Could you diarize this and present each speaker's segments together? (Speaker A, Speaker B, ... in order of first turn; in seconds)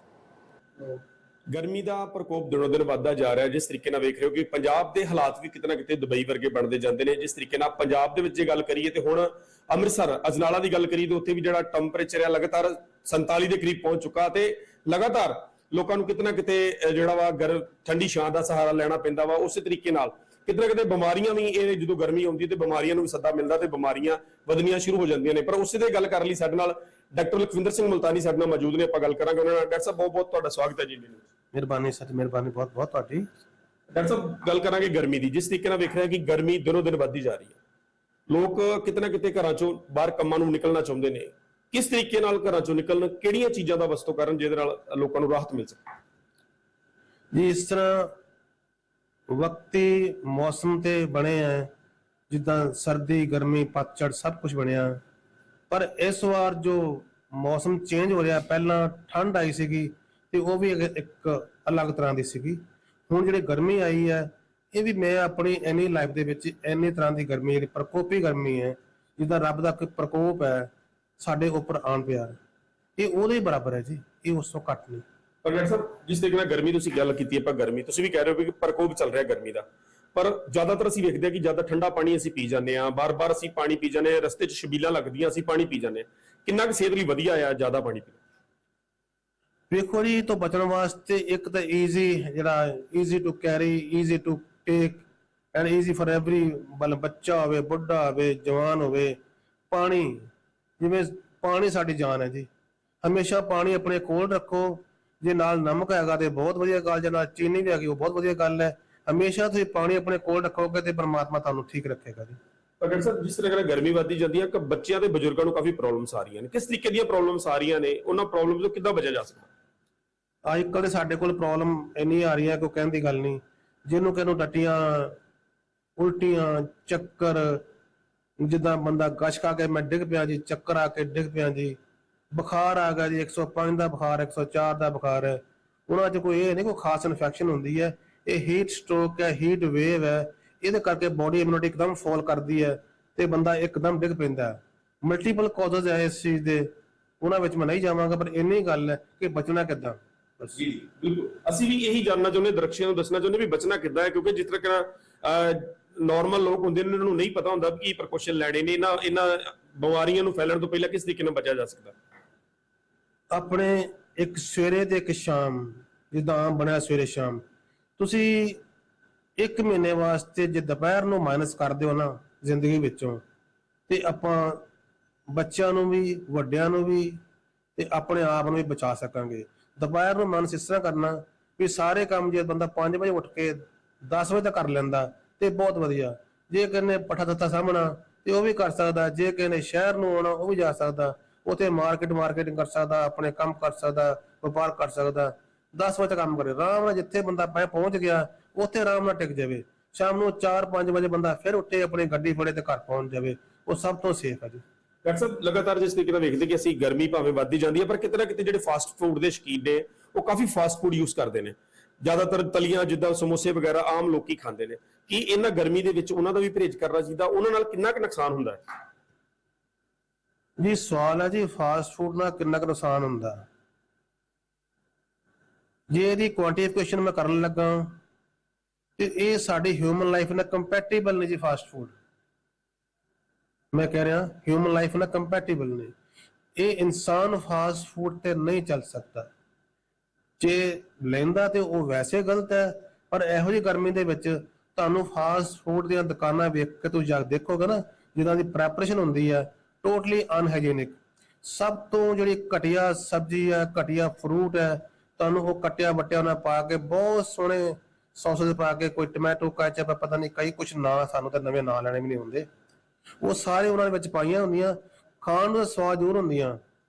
Speaker A: 1.5-31.2, 33.9-37.6, 38.3-45.8, 75.4-88.2, 112.8-119.5, 150.6-161.9, 205.1-218.6
Speaker B: 31.5-33.3, 47.3-48.1, 49.3-51.7, 52.3-55.0, 55.7-72.4, 73.0-75.0, 89.7-99.2, 99.7-100.3, 100.8-102.5, 103.0-112.4, 120.5-125.2, 126.0-127.6, 128.4-131.8, 132.3-150.6, 163.3-167.4, 168.0-168.6, 169.4-173.2, 173.9-174.6, 175.3-177.2, 177.8-204.6, 220.6-223.4, 225.9-228.0, 229.0-231.9, 233.7-235.9, 236.6-239.3, 240.4-262.5, 263.2-266.6